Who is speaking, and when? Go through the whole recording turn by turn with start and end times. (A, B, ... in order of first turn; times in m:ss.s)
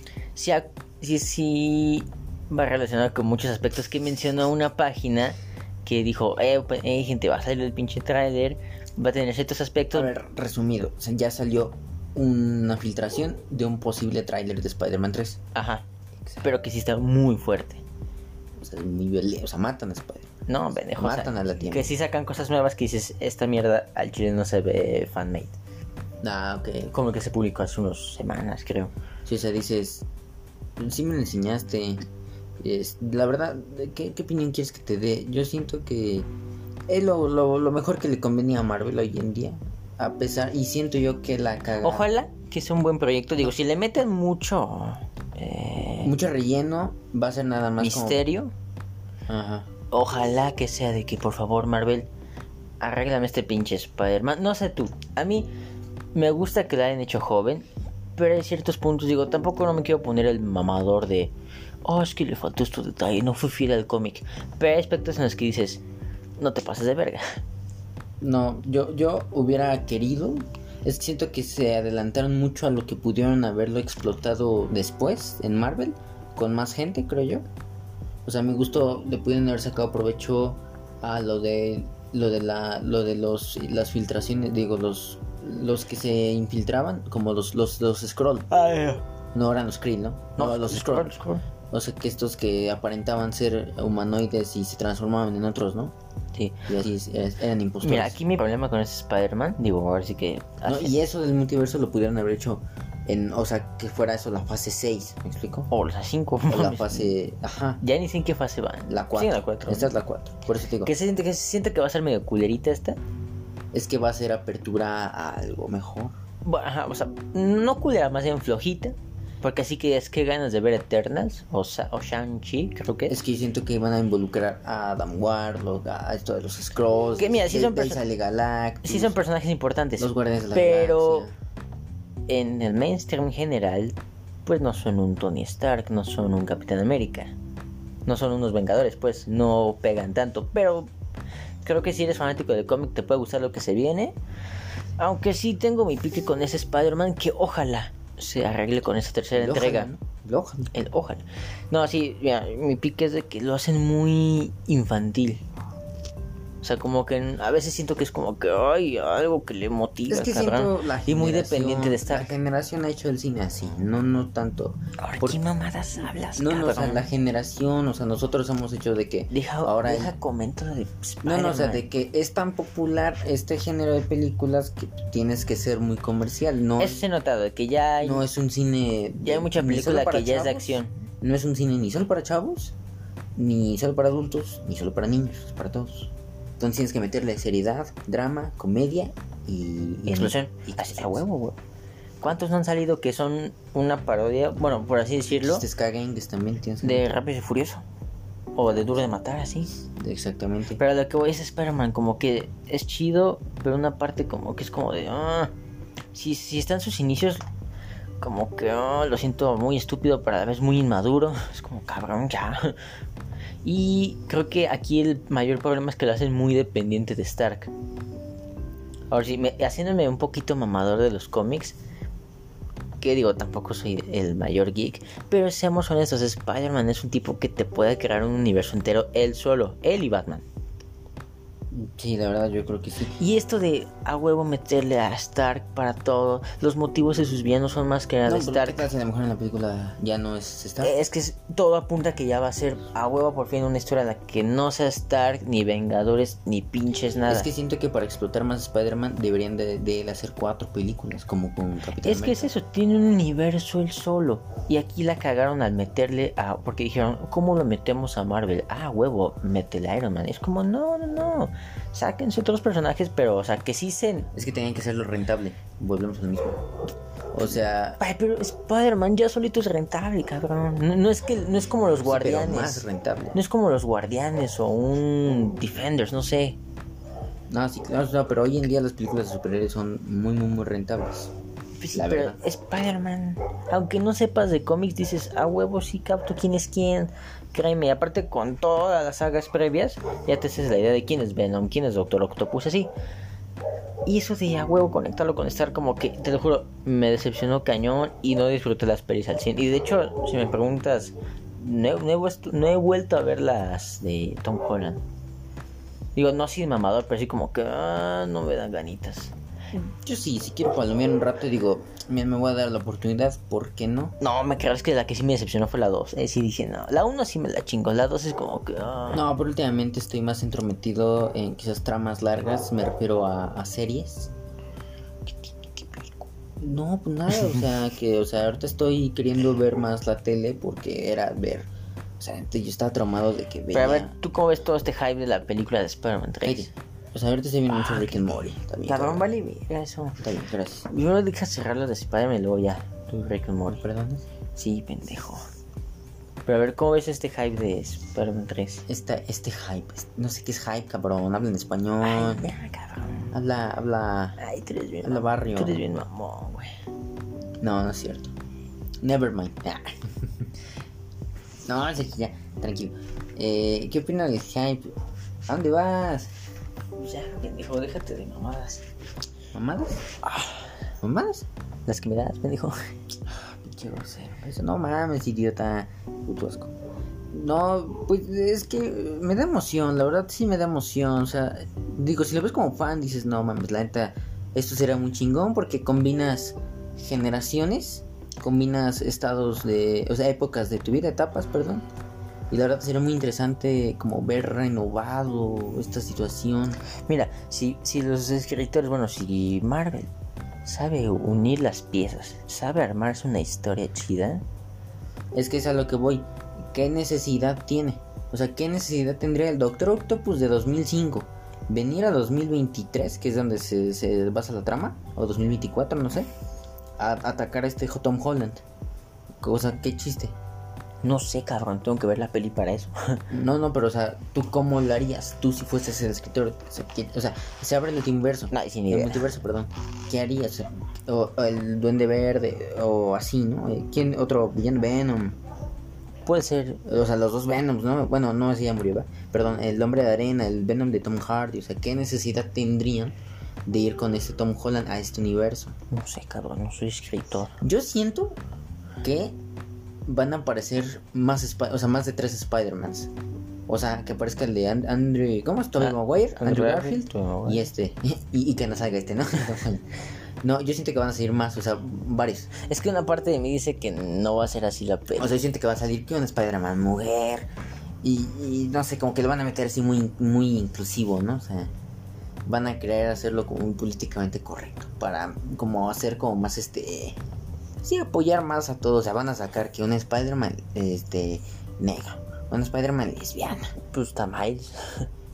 0:00.3-0:10.1 A
0:09.9-0:15.4 B
0:15.5-0:15.8 A
0:16.2-0:16.5 B
0:16.4-0:17.8 A
0:18.6-0:20.4 B
0:20.5-0:25.6 A
0:21.0-0:21.9 B
0:26.2-0:26.9 B
0:26.9-0:28.9 A
0:29.2-0:30.0 B
0:30.8-0:32.0 B
0:32.6-0:36.3 B
0:36.9-0:42.1 B
0:41.8-0:46.1 A
0:46.0-0:48.2 B
0:47.8-0:48.5 A
0:49.3-0:49.7 B
0:49.9-0:52.1 A
0:52.8-0:55.5 A
0:56.1-1:01.3 A
1:01.8-1:05.8 A
1:06.4-1:07.4 A
1:08.2-1:17.4 B
1:18.2-1:28.5 B
1:28.5-1:29.0 A
1:29.3-1:31.2 B
1:30.4-1:31.4 A
1:31.7-1:35.9 B
1:36.3-1:36.7 A
1:36.6-1:38.2 B
1:37.8-1:40.9 A
1:40.6-1:45.7 B
1:45.7-1:47.2 A
1:46.5-1:47.8 B
1:47.8-1:49.9 A
1:48.9-1:50.9 B
1:50.8-1:53.0 A
1:53.7-1:56.2 B
1:56.4-2:03.2 A
2:03.1-2:09.2 B
2:07.2-2:08.0 A
2:08.8-2:11.3 A
2:10.0-2:11.3 B
2:12.3-2:17.3 A
2:18.0-2:20.9 A
2:21.6-2:24.2 A
2:25.0-2:29.9 A
2:29.3-2:30.7 B
2:30.7-2:35.4 A
2:36.6-2:42.3 A
2:40.1-2:45.4 B
2:45.0-2:47.1 A
2:46.3-2:50.1 B
2:49.3-2:51.8 A
2:51.2-2:57.0 B
2:56.8-2:58.3 A
2:58.0-3:02.7 B
2:59.2-3:01.0 A
3:03.4-3:11.2 B
3:10.0-3:11.6 A
3:12.2-3:15.6 A
3:15.4-3:17.2 B
3:16.8-3:17.8 A
3:18.5-3:19.7 A
3:20.0-3:20.8 B
3:20.8-3:25.5 A
3:26.1-3:27.4 A
3:28.2-3:32.7 A
3:33.6-3:37.7 A
3:39.1-3:41.8 A
3:43.0-3:50.4 A
3:51.7-3:53.2 B
3:53.2-3:58.8 A
3:58.2-4:00.9 B
4:00.8-4:07.5 A
4:07.3-4:12.5 B
4:12.0-4:24.3 A
4:24.3-4:26.7 B
4:27.3-4:28.0 B
4:28.0-4:36.6 A
4:32.0-4:33.4 B
4:37.5-4:41.3 B
4:41.8-4:52.9 A
4:41.9-4:42.4 B
4:54.0-5:05.0 A
5:06.1-5:09.3 A
5:09.8-5:14.2 B
5:14.2-5:19.3 A
5:19.1-5:24.3 B
5:25.2-5:26.3 A
5:26.6-5:31.7 B
5:32.2-5:34.1 B
5:33.7-5:36.7 A
5:36.4-5:39.3 B
5:37.7-5:40.2 A
5:40.2-5:40.9 B
5:40.9-5:43.8 A
5:43.7-5:44.2 B
5:44.5-5:45.4 A
5:46.4-5:48.8 A
5:48.9-5:52.4 B
5:52.0-5:53.3 A
5:53.3-5:54.4 B
5:54.4-5:56.7 A
5:55.0-5:55.8 B
5:57.6-5:58.3 B
5:59.0-6:00.0 B
6:01.6-6:04.9 B
6:05.5-6:06.3 B
6:06.9-6:08.8 A
6:09.5-6:10.1 B
6:10.2-6:10.7 A
6:11.0-6:11.4 B
6:11.8-6:12.9 A
6:13.2-6:16.7 B
6:17.3-6:31.8 B
6:32.5-6:36.8 B
6:37.0-6:40.1 A
6:40.6-6:44.4 A
6:45.3-6:56.3 B
6:57.0-6:58.6 B
6:59.4-7:00.3 B
7:01.0-7:03.2 A
7:03.3-7:15.4 B
7:08.5-7:09.3 A
7:16.2-7:16.8 A
7:16.8-7:23.1 B
7:23.6-7:25.8 B
7:25.9-7:27.6 A
7:27.6-7:28.4 B
7:29.0-7:29.4 B
7:30.1-7:33.1 B
7:33.7-7:39.9 B
7:35.8-7:37.6 A
7:40.4-7:42.5 B
7:42.6-7:45.4 A
7:45.2-7:47.5 B
7:48.0-7:51.7 B
7:52.5-7:57.2 B
7:57.8-8:03.8 B
8:03.8-8:05.1 A